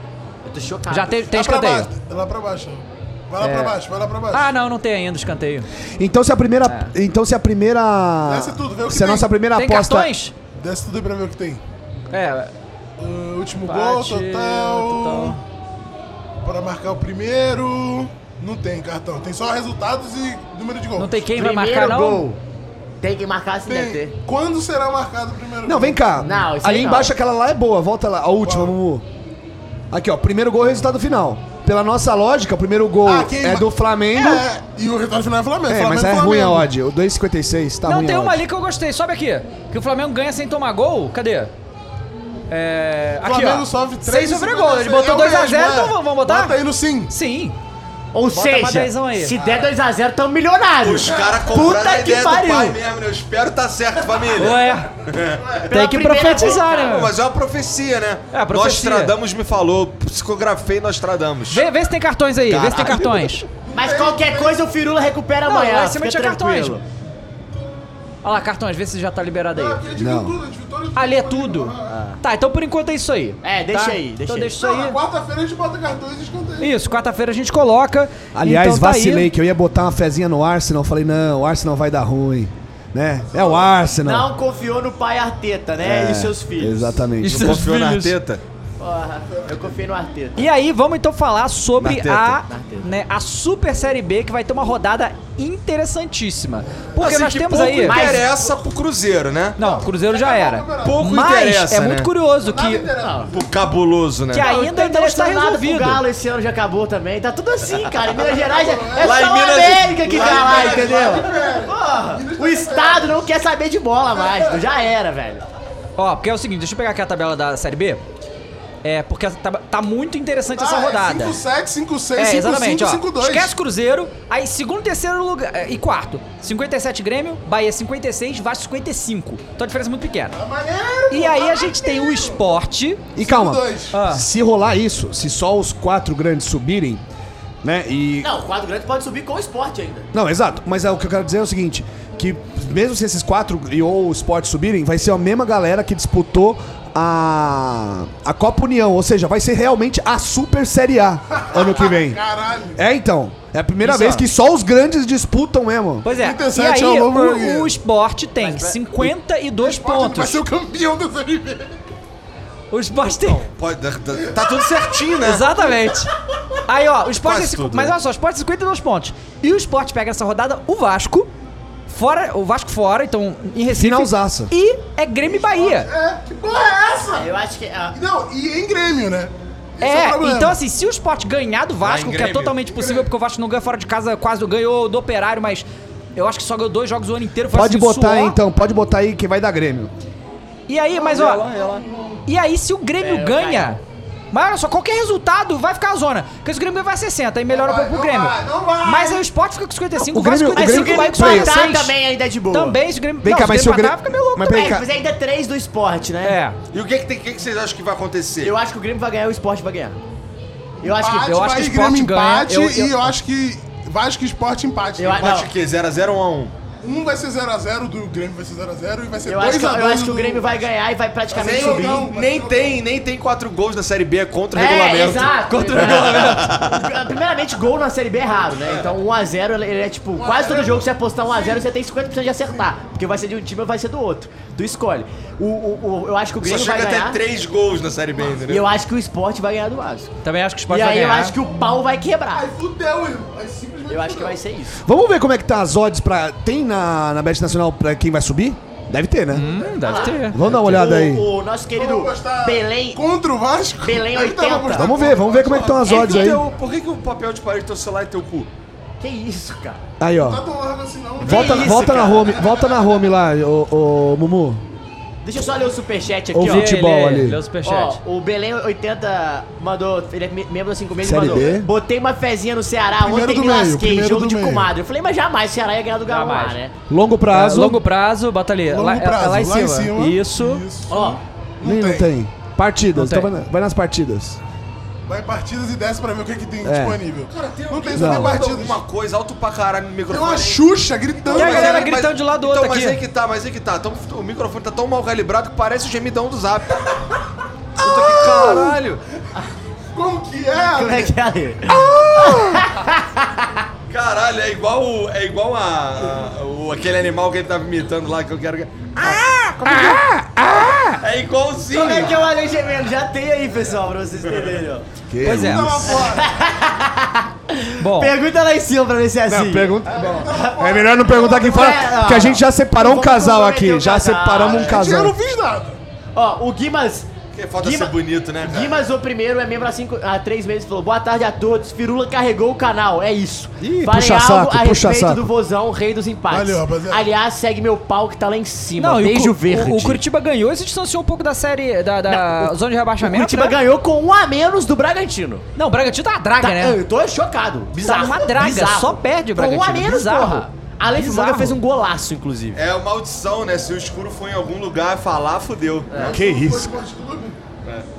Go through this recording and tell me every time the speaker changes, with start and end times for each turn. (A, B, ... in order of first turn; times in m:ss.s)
0:00.4-0:01.3 A
0:00.9-0:01.9 B
0:01.3-0:04.5 C
0:03.4-0:03.8 B
0:04.3-0:05.6 B
0:06.0-0:10.1 D
0:06.6-0:06.9 B
0:08.2-0:09.3 C
0:09.5-0:10.3 B
0:10.6-0:11.6 C
0:12.1-0:12.5 B
0:13.0-0:15.4 C
0:13.6-0:15.4 B
0:16.4-0:21.2 C
0:21.0-0:22.2 B
0:21.3-0:22.4 A
0:23.0-0:24.2 A
0:23.6-0:26.1 C
0:25.6-0:29.0 D
0:26.2-0:27.1 A
0:28.4-0:28.7 C
0:29.9-0:34.4 D
0:33.0-0:36.7 C
0:35.7-0:38.4 D
0:37.8-0:41.5 B
0:42.5-0:46.6 B
0:43.2-0:47.1 C
0:47.1-0:47.5 B
0:48.1-0:52.8 A
0:48.3-0:49.4 B
0:49.4-0:49.7 E
0:50.8-0:55.4 E
0:54.4-0:54.9 B
0:55.6-0:56.9 A
0:55.7-0:57.1 B
0:56.8-1:01.6 E
0:58.3-0:59.1 B
1:01.5-1:03.4 B
1:02.5-1:03.1 E
1:02.8-1:03.3 D
1:03.7-1:04.6 C
1:03.7-1:06.8 A
1:05.4-1:06.8 B
1:08.2-1:09.8 B
1:09.5-1:11.9 C
1:10.0-1:10.3 D
1:10.9-1:15.0 B
1:11.9-1:12.2 A
1:13.4-1:14.6 A
1:14.6-1:16.7 C
1:16.6-1:19.3 B
1:18.3-1:24.3 D
1:23.3-1:23.6 C
1:24.0-1:26.9 A
1:25.8-1:27.6 D
1:27.2-1:28.1 B
1:27.4-1:28.4 E
1:28.8-1:30.5 A
1:30.4-1:38.1 B
1:31.8-1:32.4 E
1:32.5-1:32.9 A
1:37.0-1:39.6 E
1:37.8-1:38.3 A
1:39.6-1:41.0 C
1:39.6-1:42.8 B
1:40.8-1:42.1 E
1:42.4-1:43.4 C
1:43.0-1:43.3 A
1:43.3-1:44.5 E
1:44.3-1:46.0 B
1:44.4-1:55.4 A
1:48.2-1:49.3 C
1:49.0-1:51.2 E
1:50.0-1:53.2 C
1:54.1-1:54.6 C
1:56.0-1:58.0 B
1:58.8-2:01.4 B
2:00.5-2:03.5 C
2:02.2-2:10.4 B
2:10.3-2:12.4 C
2:11.1-2:13.0 B
2:13.2-2:14.0 C
2:13.2-2:17.0 D
2:13.9-2:14.2 B
2:17.6-2:18.3 D
2:18.2-2:20.1 A
2:20.1-2:32.2 D
2:31.4-2:32.8 C
2:32.8-2:36.0 D
2:33.8-2:34.3 B
2:36.0-2:40.4 B
2:36.0-2:37.7 C
2:38.4-2:38.8 A
2:39.0-2:41.7 C
2:42.7-2:43.4 B
2:43.5-2:45.4 E
2:45.2-2:46.1 B
2:46.6-2:51.3 B
2:47.2-2:47.9 E
2:51.9-2:55.9 B
2:53.7-2:54.5 D
2:55.2-2:57.3 C
2:57.2-2:58.0 A
2:57.9-3:00.6 C
2:59.8-3:08.4 B
3:01.8-3:02.6 E
3:02.7-3:03.0 C
3:07.5-3:09.9 D
3:10.7-3:11.4 B
3:11.0-3:12.2 C
3:11.1-3:11.8 E
3:12.2-3:13.8 B
3:13.0-3:13.8 A
3:14.3-3:21.9 B
3:17.5-3:19.3 C
3:20.0-3:21.6 D
3:20.5-3:22.8 A
3:22.5-3:24.7 B
3:23.2-3:24.8 D
3:24.5-3:26.4 A
3:26.2-3:26.6 B
3:26.7-3:28.5 E
3:28.4-3:30.0 A
3:30.8-3:35.2 C
3:30.8-3:31.4 A
3:31.2-3:33.1 B
3:35.0-3:35.5 A
3:35.1-3:36.5 E
3:36.8-3:40.6 C
3:39.3-3:42.1 A
3:41.3-3:42.8 C
3:41.4-3:46.9 E
3:44.5-3:57.2 A
3:50.2-3:51.6 C
3:56.4-3:58.7 E
3:58.4-4:00.1 A
4:00.2-4:01.4 B
4:00.7-4:02.4 A
4:02.3-4:04.4 C
4:03.9-4:04.8 A
4:04.8-4:09.5 D
4:09.3-4:10.8 B
4:09.8-4:13.0 A
4:10.3-4:11.2 D
4:11.7-4:16.0 C
4:13.8-4:15.0 A
4:14.7-4:16.4 D
4:15.5-4:18.5 E
4:15.9-4:16.3 A
4:19.0-4:19.8 A
4:20.0-4:20.4 D
4:20.2-4:22.8 C
4:21.2-4:24.6 D
4:21.2-4:22.2 B
4:21.4-4:22.2 A
4:25.2-4:26.7 A
4:26.3-4:27.4 D
4:26.4-4:28.0 B
4:27.6-4:36.7 A
4:31.0-4:31.7 D
4:33.0-4:34.7 C
4:36.1-4:36.6 B
4:36.9-4:37.8 D
4:37.3-4:40.6 B
4:38.6-4:42.1 C
4:40.9-4:41.2 A
4:41.6-4:44.4 D
4:43.0-4:43.3 B
4:45.1-4:48.8 C
4:46.6-4:47.0 D
4:47.3-4:50.6 E
4:47.9-4:48.4 D
4:50.1-4:51.9 C
4:51.2-4:57.0 E
4:51.3-4:53.0 B
4:57.8-4:59.0 E
4:59.9-5:01.1 C
5:00.7-5:03.6 A
5:03.9-5:09.2 E
5:09.0-5:11.0 D
5:09.6-5:10.0 A
5:11.0-5:12.2 E
5:11.7-5:14.8 A
5:15.1-5:16.0 D
5:15.2-5:15.7 B
5:15.3-5:16.3 C
5:15.9-5:19.8 A
5:17.8-5:18.1 B
5:19.3-5:25.2 D
5:19.9-5:21.8 C
5:20.3-5:20.6 A
5:21.1-5:24.9 A
5:24.4-5:25.8 C
5:26.1-5:40.0 A
5:27.3-5:28.8 E
5:33.6-5:35.3 D
5:36.3-5:37.0 C
5:38.8-5:43.6 B
5:42.1-5:45.4 A
5:45.6-5:46.8 B
5:46.4-5:52.6 A
5:47.8-5:51.6 B
5:52.5-5:55.9 E
5:55.9-5:57.4 C
5:56.1-5:56.7 D